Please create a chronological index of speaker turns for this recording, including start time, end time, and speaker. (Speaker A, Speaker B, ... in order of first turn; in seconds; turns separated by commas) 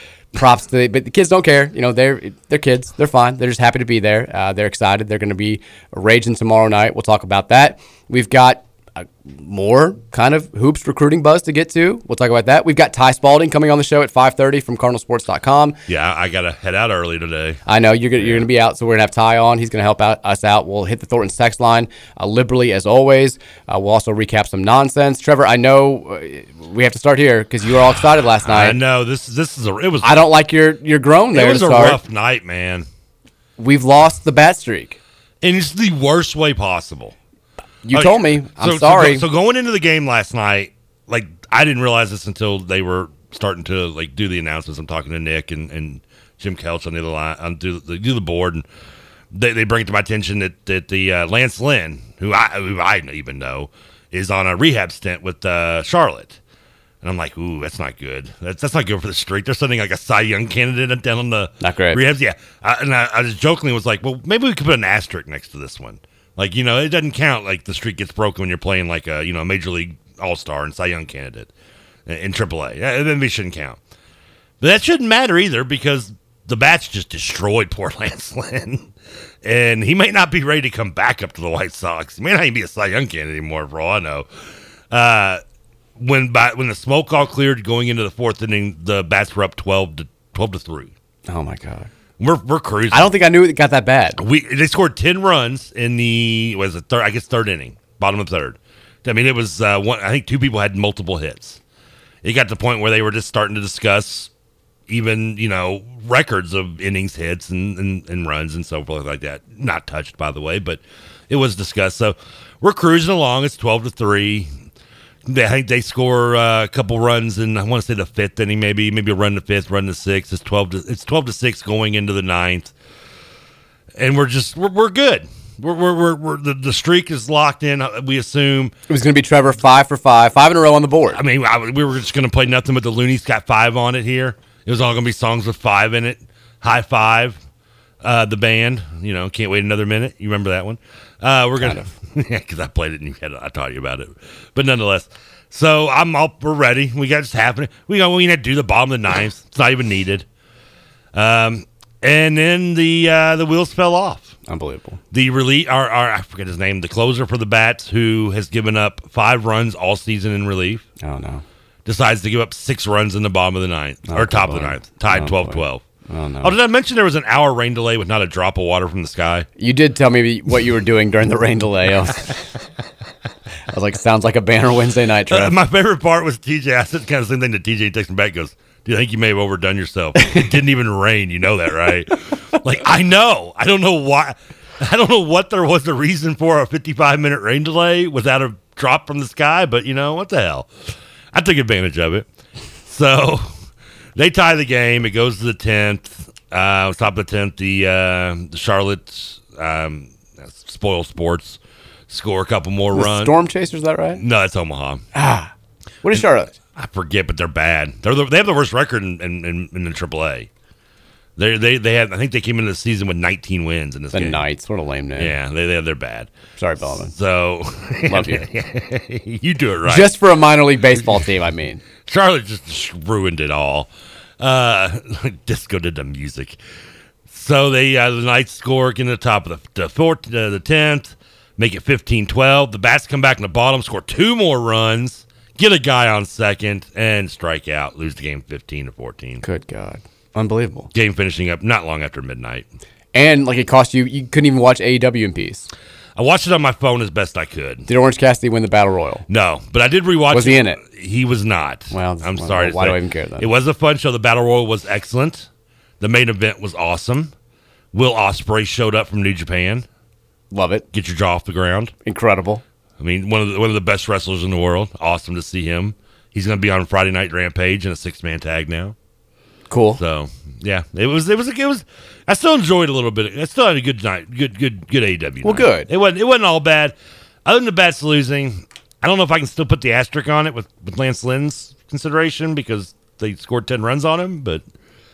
Speaker A: 0.3-15.8, Speaker B: 15.9-17.6, Speaker A: 17.7-28.8, Speaker B: 18.2-18.4, Speaker B: 28.4-30.2, Speaker A: 30.0-32.0, Speaker B: 31.3-32.9, Speaker A: 33.6-35.0, Speaker B: 35.4-37.1, Speaker A: 37.9-39.3, Speaker B: 37.9-48.6, Speaker B: 49.3-56.4, Speaker B: 57.0-71.5, Speaker A: 61.6-62.0, Speaker B: 72.1-73.8, Speaker B: 74.6-78.9, Speaker B: 79.4-84.3, Speaker B: 84.9-85.4, Speaker B: 86.0-90.9, Speaker A: 91.3-91.9, Speaker B: 92.2-93.1, Speaker A: 92.9-94.2, Speaker B: 94.2-101.6, Speaker B: 102.2-104.3, Speaker B: 104.9-114.5, Speaker B: 115.2-122.7, Speaker B: 124.0-128.7, Speaker A: 128.9-131.2, Speaker B: 131.1-137.4, Speaker B: 138.0-150.3, Speaker A: 141.6-141.9, Speaker B: 151.1-154.3, Speaker A: 154.5-155.0, Speaker B: 155.1-160.8, Speaker A: 161.0-161.4, Speaker B: 161.8-165.8, Speaker A: 164.1-166.6, Speaker B: 166.4-169.5, Speaker A: 169.6-172.3, Speaker A: 173.7-175.6, Speaker B: 175.3-190.7, Speaker B: 191.3-192.3, Speaker B: 192.9-193.6, Speaker B: 194.2-201.6, Speaker B: 202.1-203.4, Speaker A: 202.9-204.2, Speaker B: 204.2-205.0, Speaker A: 205.1-205.5, Speaker A: 206.0-206.5, Speaker B: 206.7-210.5, Speaker B: 211.4-214.4, Speaker A: 214.1-215.3, Speaker B: 215.2-220.1, Speaker A: 216.6-217.1, Speaker A: 218.1-218.5, Speaker A: 219.8-221.8, Speaker B: 222.1-223.9, Speaker B: 224.4-226.6, Speaker B: 227.3-239.4, Speaker A: 239.4-240.9, Speaker B: 240.9-242.7, Speaker A: 243.1-245.7, Speaker B: 246.2-247.9, Speaker A: 247.9-249.3, Speaker B: 249.3-255.5, Speaker A: 250.3-250.8, Speaker A: 251.9-253.5, Speaker B: 256.0-257.3, Speaker B: 257.9-259.9, Speaker A: 260.5-260.9, Speaker B: 260.9-261.9, Speaker A: 262.1-262.6, Speaker B: 263.0-268.9, Speaker A: 269.7-270.0, Speaker B: 270.0-284.7, Speaker A: 275.4-275.9